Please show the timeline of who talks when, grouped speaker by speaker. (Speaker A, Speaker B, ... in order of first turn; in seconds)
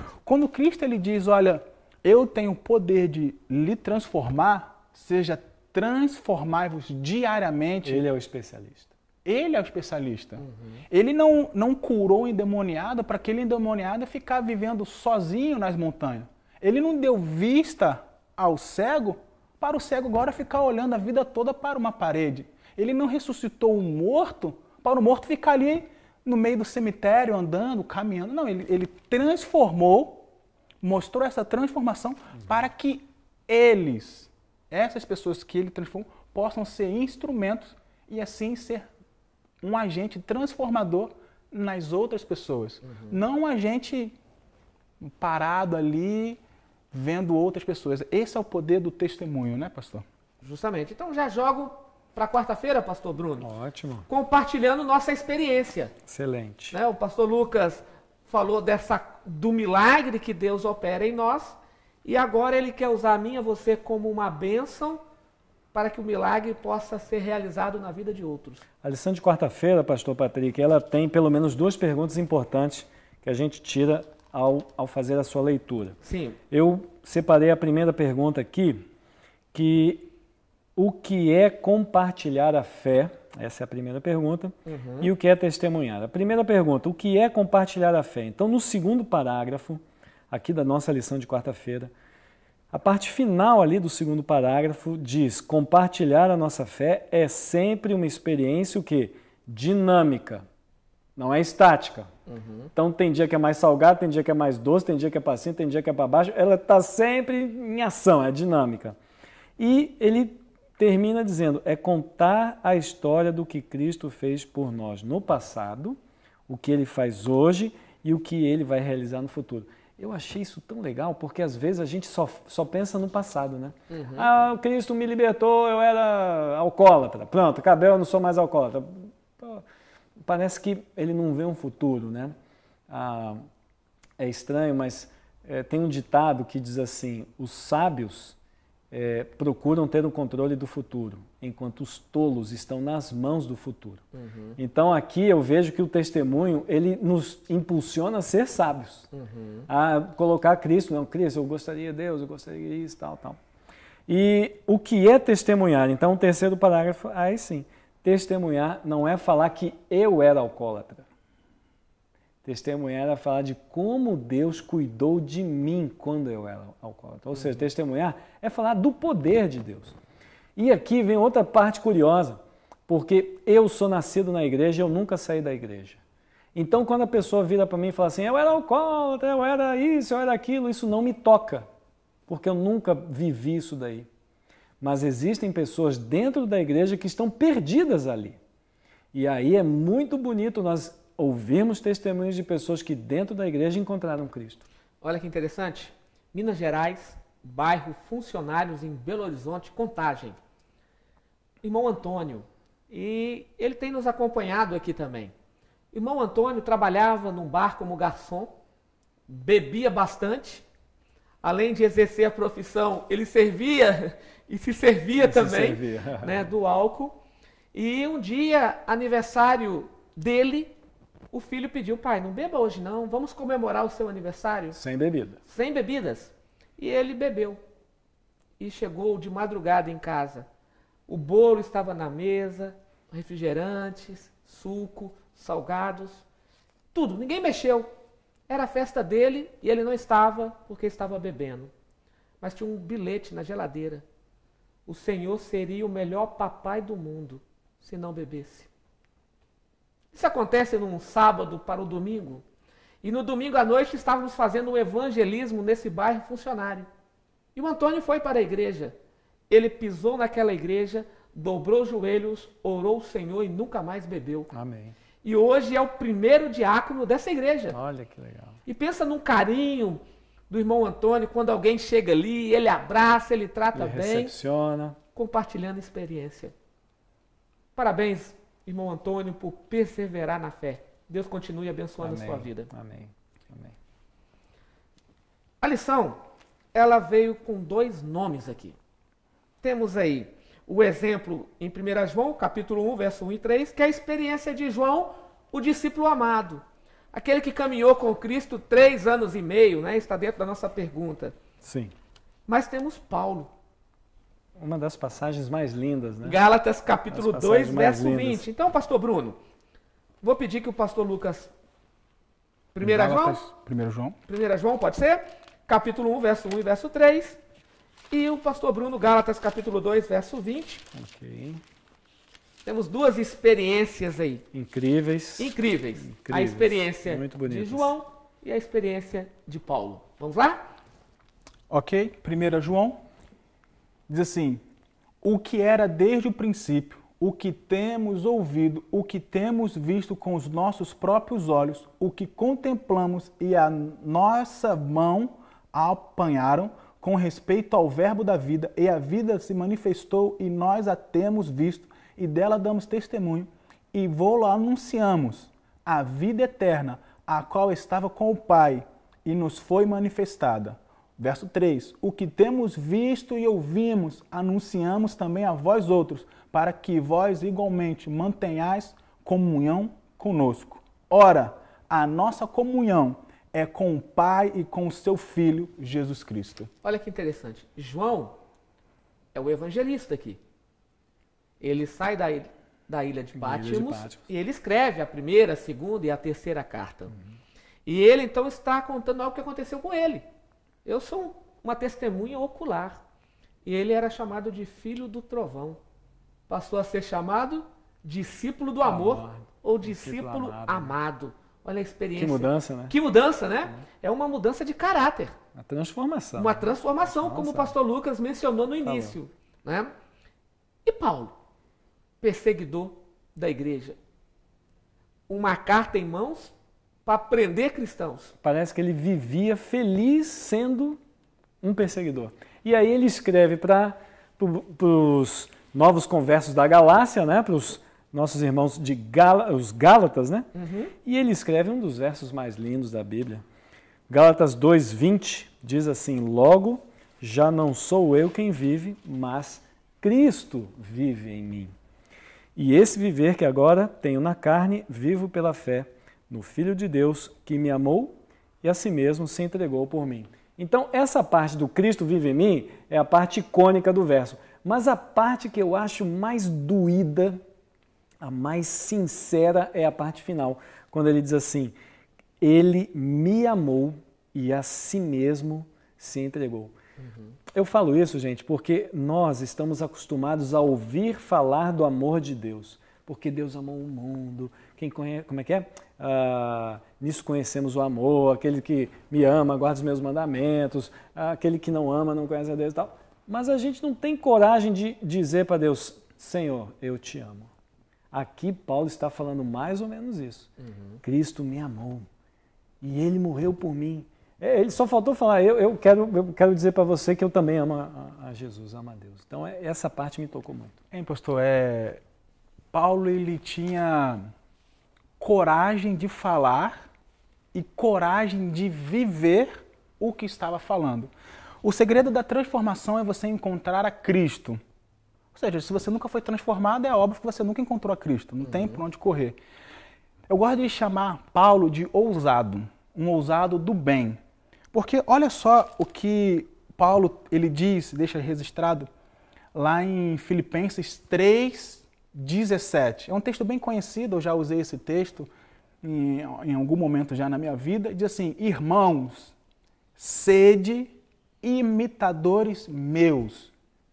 Speaker A: 0.2-8.1, 9.2-30.3, 30.8-38.9, 39.6-44.2, 45.0-46.4, 46.9-50.0, 312.8-314.2, 331.7-333.0, 334.1-334.6, 335.2-376.7, 500.9-502.0, 502.7-504.2, 505.2-506.9, 507.5-511.1, 511.6-514.6, 515.3-519.4, 520.3-524.2, 524.7-528.9, 529.5-535.3, 535.8-539.4, 540.0-543.5
Speaker B: 7.8-8.9, 53.4-54.1, 56.1-56.8, 68.8-76.0, 76.5-78.8, 79.5-80.1, 80.8-91.9, 92.7-100.4, 101.2-102.1, 102.8-109.0, 109.6-129.6, 130.2-132.3, 132.9-133.4, 134.2-138.4, 138.9-144.0, 144.6-149.1, 149.7-153.4, 154.1-161.1, 162.4-170.0, 170.6-176.0, 176.6-181.7, 182.3-184.1, 184.8-188.4, 189.1-194.7, 215.2-216.5, 224.7-225.4, 264.5-265.0, 267.7-268.6, 273.7-275.0, 282.0-283.8, 301.6-301.9, 304.6-306.4, 307.1-308.4, 320.9-321.6, 324.5-327.9, 383.4-384.2, 398.8-400.9, 402.2-403.0, 405.6-407.7, 408.8-409.2, 418.4-421.0, 421.6-430.5, 431.1-433.4, 434.1-441.7, 442.6-457.4, 458.2-461.8, 462.4-466.7, 467.5-487.5, 488.1-490.5, 491.0-492.1, 492.8-500.8
Speaker C: 10.4-10.8, 42.8-43.2, 50.4-53.5, 54.1-55.9, 56.7-65.0, 65.7-68.7, 76.0-76.4, 84.7-85.1, 102.3-102.7, 123.9-124.3, 144.1-144.6, 149.1-149.7, 195.0-200.4, 201.6-205.3, 205.9-208.5, 209.3-210.7, 211.4-217.2, 217.7-220.7, 221.3-224.8, 225.5-227.6, 228.6-230.5, 231.1-236.2, 236.9-237.9, 238.5-241.7, 242.4-244.0, 244.9-248.7, 250.1-252.4, 253.0-256.9, 257.6-258.9, 259.5-264.5, 265.2-267.8, 268.7-274.3, 275.1-276.5, 277.8-282.7, 285.6-286.2, 286.7-288.8, 289.6-301.4, 302.5-303.5, 306.2-309.4, 310.2-311.5, 312.7-313.4, 314.3-317.4, 318.1-320.8, 322.6-324.4, 325.4-330.7, 376.8-378.4, 379.3-380.4, 381.6-387.1, 387.9-390.3, 390.9-393.0, 393.6-395.8, 396.5-405.4, 406.4-409.9, 410.9-411.3, 412.2-414.0, 415.3-416.5, 417.1-418.3, 430.6-430.9, 467.0-467.4, 490.6-491.0, 518.4-518.8